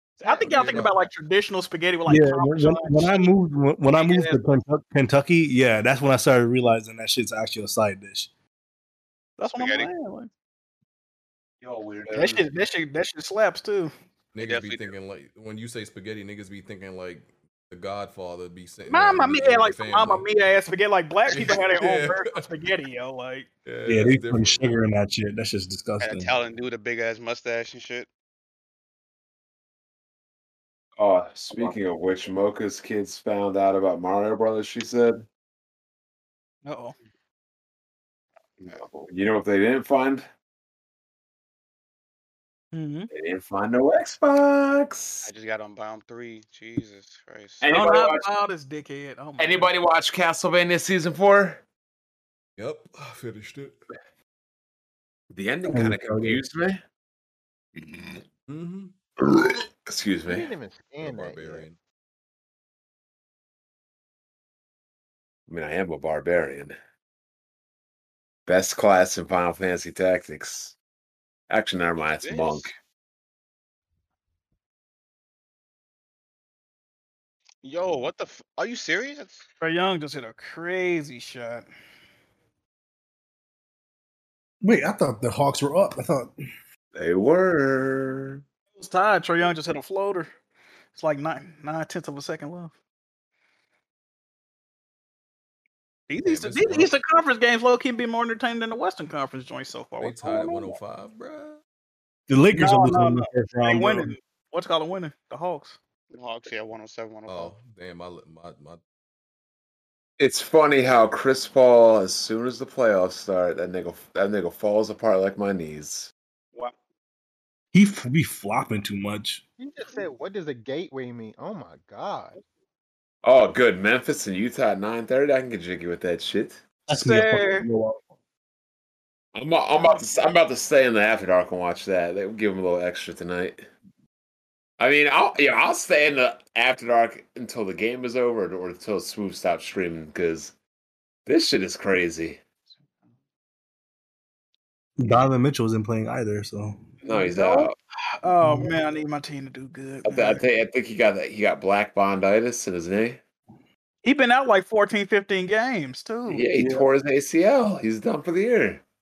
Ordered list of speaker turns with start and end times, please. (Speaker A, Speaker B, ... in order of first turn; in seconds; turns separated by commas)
Speaker A: 0.2-3.3, Speaker B: 0.2-0.9, Speaker C: 0.6-0.9, Speaker D: 2.1-8.3, Speaker A: 3.9-4.4, Speaker A: 9.4-10.3, Speaker E: 9.5-9.9, Speaker F: 11.6-12.4, Speaker A: 12.1-13.9, Speaker C: 14.3-20.3, Speaker E: 14.4-14.9, Speaker A: 18.9-23.5, Speaker C: 21.3-22.4, Speaker C: 23.6-24.7, Speaker D: 23.9-26.3, Speaker E: 26.0-28.1, Speaker F: 31.0-35.2, Speaker A: 36.6-36.9, Speaker F: 38.6-40.2, Speaker A: 42.7-43.1, Speaker F: 43.1-45.3, Speaker E: 45.2-47.7, Speaker F: 47.6-48.3, Speaker A: 47.7-49.7, Speaker F: 49.4-51.6, Speaker C: 52.6-53.8, Speaker F: 55.3-56.8, Speaker D: 55.7-56.4, Speaker C: 58.5-58.9, Speaker F: 59.2-60.5, Speaker B: 60.3-61.6, Speaker C: 61.0-61.8, Speaker F: 65.5-66.7, Speaker F: 68.5-70.7, Speaker F: 71.5-72.7, Speaker E: 72.2-72.7, Speaker E: 77.6-79.4, Speaker A: 79.6-81.7, Speaker D: 84.6-86.3, Speaker F: 86.9-88.4, Speaker A: 88.8-90.3, Speaker A: 90.9-92.7, Speaker A: 96.1-100.8, Speaker C: 96.2-96.9, Speaker C: 100.0-101.6, Speaker D: 102.3-104.1, Speaker A: 102.5-105.8, Speaker E: 106.1-107.5, Speaker C: 107.3-108.8, Speaker F: 110.2-116.1, Speaker D: 117.7-119.4, Speaker B: 119.6-122.4, Speaker F: 123.2-126.6, Speaker D: 126.9-128.0, Speaker A: 126.9-127.7, Speaker F: 129.3-133.6, Speaker F: 134.8-140.5, Speaker F: 141.3-142.4, Speaker D: 145.0-146.8, Speaker F: 147.0-147.7, Speaker A: 147.1-147.7, Speaker A: 148.2-150.4, Speaker D: 148.4-148.7, Speaker F: 150.0-153.2, Speaker A: 154.0-156.4, Speaker F: 156.3-158.8, Speaker D: 156.5-156.9